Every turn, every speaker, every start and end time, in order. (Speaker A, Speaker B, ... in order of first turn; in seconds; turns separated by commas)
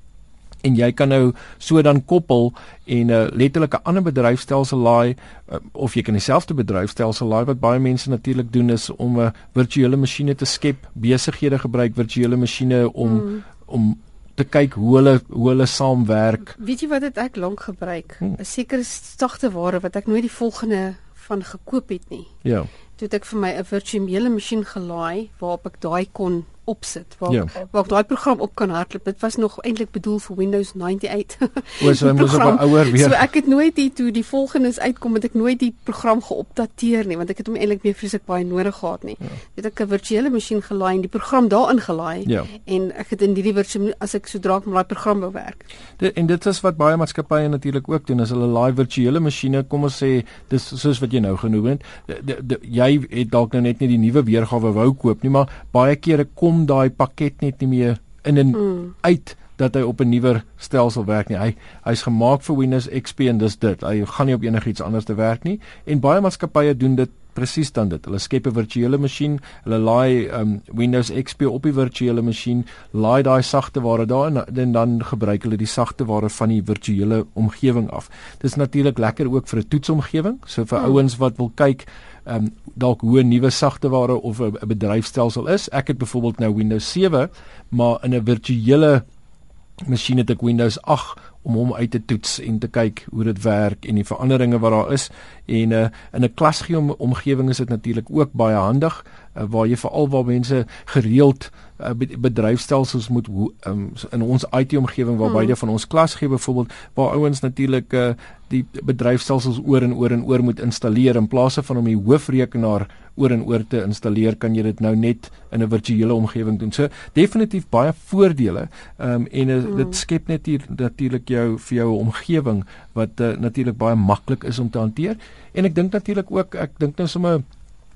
Speaker A: 0.6-16.5, Speaker B: 13.0-13.4, Speaker B: 16.6-22.3, Speaker A: 22.4-22.7, Speaker B: 23.0-45.6, Speaker A: 31.8-33.2, Speaker A: 42.2-42.5, Speaker A: 46.0-89.0, Speaker B: 58.6-58.9, Speaker A: 89.8-127.4, Speaker B: 105.2-105.5, Speaker B: 119.7-120.0